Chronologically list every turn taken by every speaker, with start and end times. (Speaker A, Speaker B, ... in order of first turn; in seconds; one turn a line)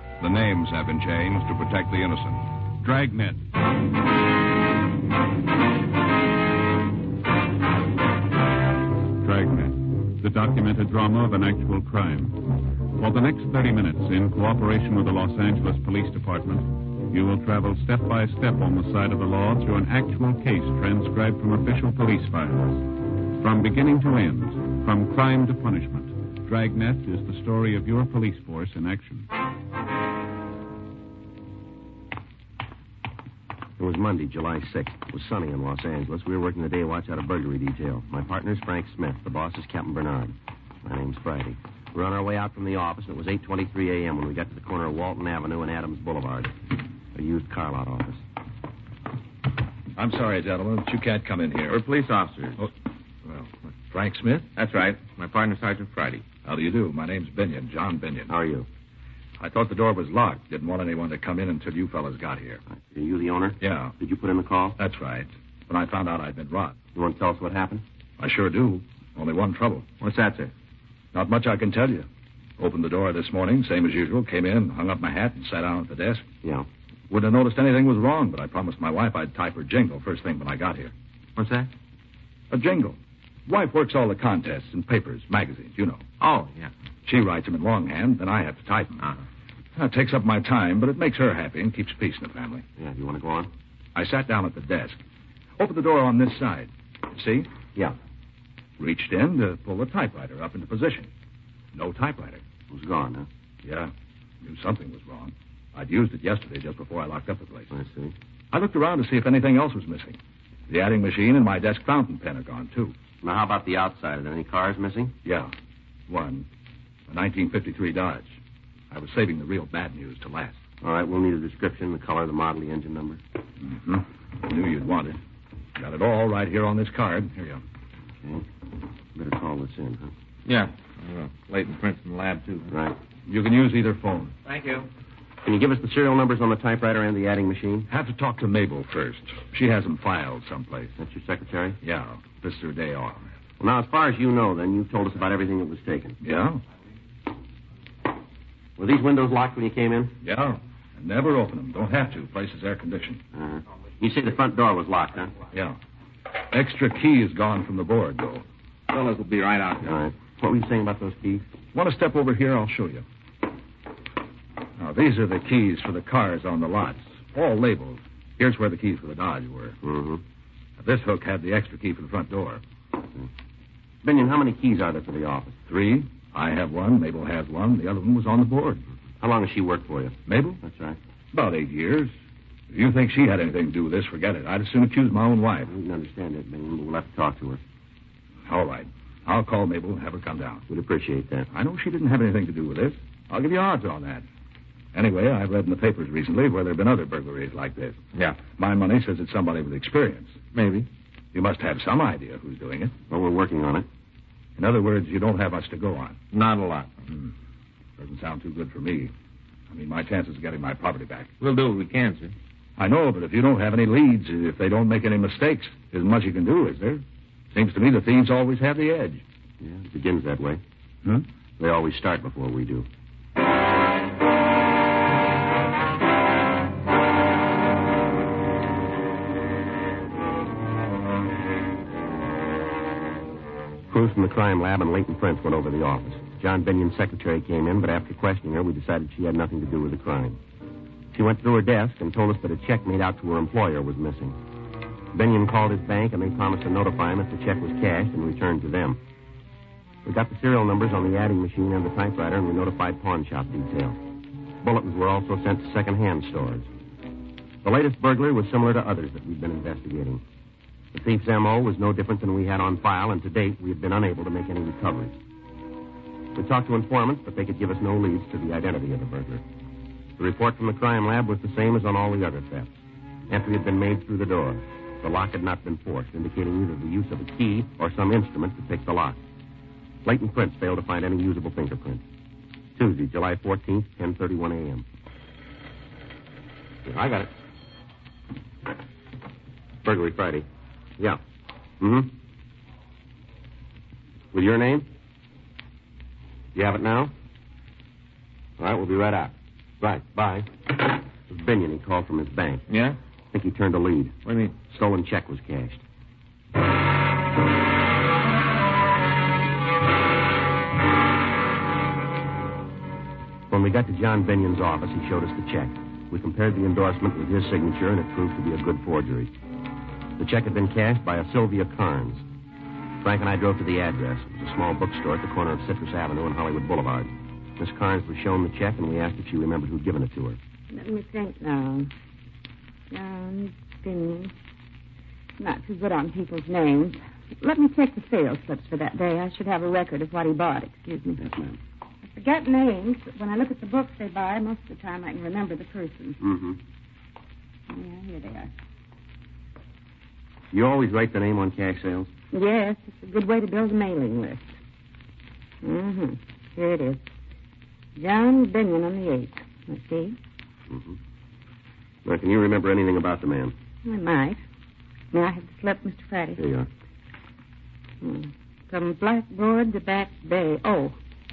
Speaker A: 0.2-2.5
Speaker B: 2.8-3.4
Speaker B: 9.2-29.3
Speaker C: 33.8-46.6
Speaker C: 47.1-48.2
Speaker D: 50.0-51.8
Speaker E: 51.7-52.7
Speaker D: 53.2-54.5
Speaker E: 54.6-56.3
Speaker D: 56.4-58.3
Speaker C: 58.3-58.7
Speaker D: 59.4-62.6
Speaker C: 62.7-64.8
Speaker D: 63.6-63.9
Speaker D: 64.8-66.8
Speaker C: 67.0-67.8
Speaker D: 68.2-69.9
Speaker E: 70.0-70.5
Speaker D: 71.1-76.3
Speaker D: 77.1-80.9
Speaker E: 81.4-81.7
Speaker D: 82.5-86.0
Speaker E: 86.2-86.7
Speaker D: 87.1-89.0
Speaker D: 89.8-92.7
Speaker C: 92.8-93.5
Speaker D: 94.0-95.0
Speaker D: 95.6-97.5
Speaker D: 98.8-101.1
Speaker D: 101.7-102.4
Speaker C: 102.7-103.3
Speaker D: 103.7-103.9
Speaker D: 104.4-107.7
Speaker C: 107.7-108.2
Speaker D: 108.5-110.2
Speaker D: 110.7-112.9
Speaker C: 113.2-115.2
Speaker D: 115.2-115.5
Speaker D: 116.1-116.5
Speaker D: 117.1-118.3
Speaker D: 118.9-120.6
Speaker C: 120.8-123.2
Speaker D: 123.6-125.2
Speaker D: 125.8-127.6
Speaker C: 129.2-130.1
Speaker E: 130.5-132.7
Speaker C: 132.7-133.0
Speaker D: 133.3-134.3
Speaker E: 134.4-134.9
Speaker C: 135.4-137.9
Speaker D: 137.9-140.9
Speaker C: 141.0-141.8
Speaker D: 141.8-143.3
Speaker C: 143.6-146.2
Speaker D: 146.2-146.6
Speaker C: 148.8-150.2
Speaker D: 150.2-153.2
Speaker C: 153.3-155.3
Speaker D: 156.5-158.4
Speaker E: 158.9-160.0
Speaker C: 159.8-161.5
Speaker D: 161.7-163.1
Speaker D: 164.8-169.8
Speaker C: 169.8-170.2
Speaker D: 170.8-172.6
Speaker C: 174.0-175.6
Speaker D: 175.7-178.8
Speaker C: 179.2-181.0
Speaker D: 180.3-180.6
Speaker D: 181.3-182.1
Speaker D: 182.7-185.7
Speaker C: 185.7-187.6
Speaker D: 188.5-190.7
Speaker C: 190.7-191.5
Speaker D: 191.5-194.2
Speaker D: 194.9-200.4
Speaker E: 200.5-200.9
Speaker D: 201.3-202.9
Speaker C: 203.1-203.9
Speaker D: 204.6-206.2
Speaker E: 206.3-207.0
Speaker D: 208.0-209.1
Speaker D: 209.7-211.3
Speaker E: 211.4-212.3
Speaker D: 212.8-219.2
Speaker C: 219.6-220.6
Speaker C: 221.6-222.9
Speaker C: 233.9-240.4
Speaker C: 241.1-244.4
Speaker C: 245.1-249.0
Speaker C: 250.1-254.0
Speaker C: 254.6-256.7
Speaker C: 257.6-260.2
Speaker C: 260.9-265.1
Speaker C: 266.4-269.4
Speaker C: 270.2-272.7
Speaker C: 273.3-279.2
Speaker C: 280.1-282.0
Speaker C: 282.8-284.9
Speaker C: 286.9-287.3
Speaker C: 289.8-290.5
Speaker C: 291.8-292.1
Speaker C: 294.3-294.9
Speaker C: 296.6-297.1
Speaker C: 298.6-300.5
Speaker C: 301.3-302.6
Speaker E: 302.7-303.0
Speaker C: 303.3-304.2
Speaker E: 304.2-304.6
Speaker C: 304.7-305.8
Speaker C: 313.5-319.3
Speaker C: 320.2-322.2
Speaker C: 323.0-330.4
Speaker F: 330.7-331.9
Speaker F: 332.9-334.3
Speaker F: 335.4-341.2
Speaker C: 341.2-341.6
Speaker F: 342.0-346.2
Speaker C: 346.2-346.6
Speaker F: 347.7-348.5
Speaker C: 350.5-352.1
Speaker F: 352.3-354.5
Speaker F: 355.6-357.0
Speaker F: 358.0-360.2
Speaker C: 360.7-361.0
Speaker C: 362.1-363.5
Speaker F: 363.8-364.4
Speaker F: 365.1-366.4
Speaker C: 366.4-366.7
Speaker F: 368.0-371.0